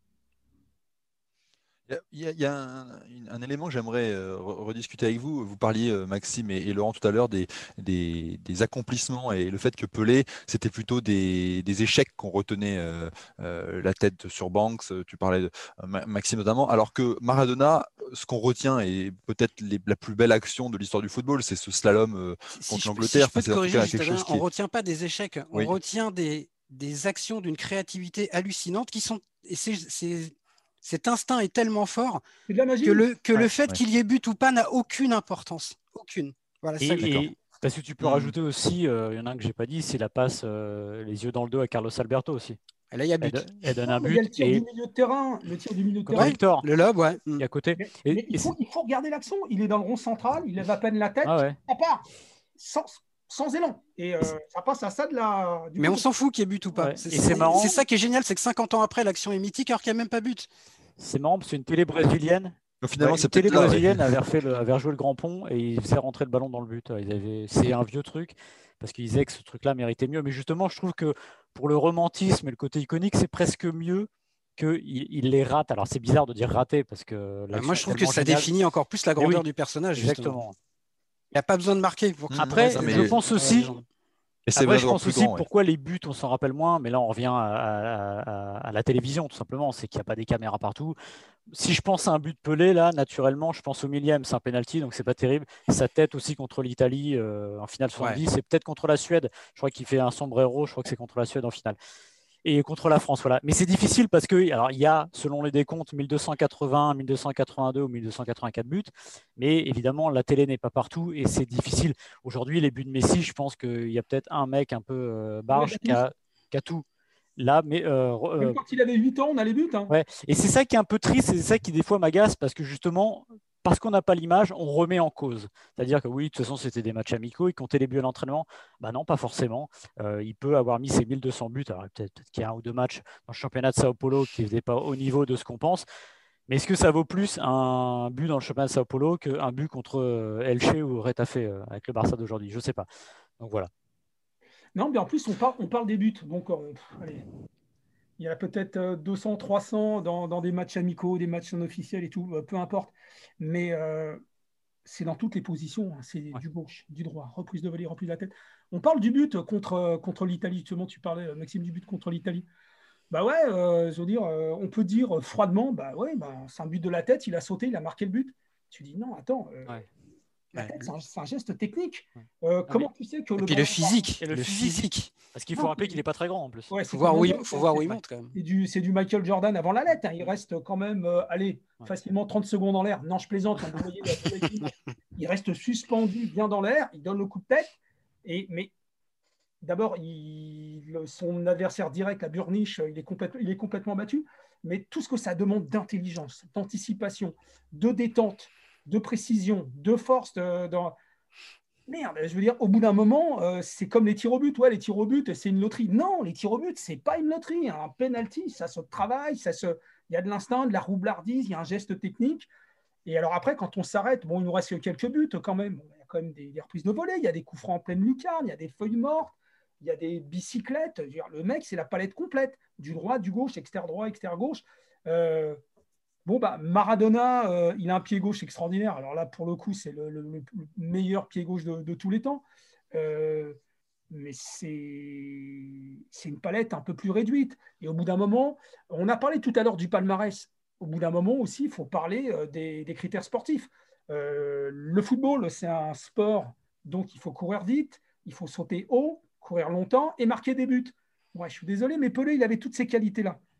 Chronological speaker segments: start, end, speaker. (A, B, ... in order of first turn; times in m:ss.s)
0:01.9-0:24.4 A
0:22.5-0:32.2 B
0:32.5-0:33.0 C
0:32.8-0:37.3 B
0:36.8-0:42.6 D
0:38.0-0:38.3 A
0:42.9-0:43.5 B
0:43.2-0:44.6 D
0:43.8-0:46.4 C
0:46.1-0:46.6 D
0:46.1-0:47.4 B
0:47.4-0:48.5 D
0:47.8-0:52.0 C
0:51.2-0:51.6 D
0:52.6-0:56.0 C
0:55.8-1:00.5 B
0:56.8-0:57.7 D
0:57.3-0:57.8 C
1:01.0-1:18.5 D
1:02.8-1:04.0 A
1:17.5-1:20.4 B
1:19.2-1:20.6 D
1:21.3-1:23.8 B
1:22.3-1:23.1 A
1:22.5-1:23.7 D
1:24.5-1:25.4 A
1:24.6-1:30.9 D
1:31.5-1:41.8 D
1:42.4-1:56.8 D
1:55.5-1:56.0 C
1:57.4-1:58.6 D
1:58.4-1:59.9 C
1:59.9-2:15.8 D
2:16.5-2:22.9 D
2:23.4-2:23.7 D
2:24.7-2:27.2 C
2:28.2-2:34.2 C
2:34.8-2:42.4 C
2:43.1-2:49.7 C
2:50.5-2:54.0 C
2:53.4-2:55.1 B
2:54.2-2:54.8 D
2:55.3-2:56.7 D
2:55.5-2:56.0 C
2:56.7-3:08.7 C
2:56.9-2:58.3 B
3:09.6-3:20.9 C
3:21.9-3:32.5 C
3:33.0-3:45.6 C
3:46.2-3:53.6 C
3:54.1-4:13.4 C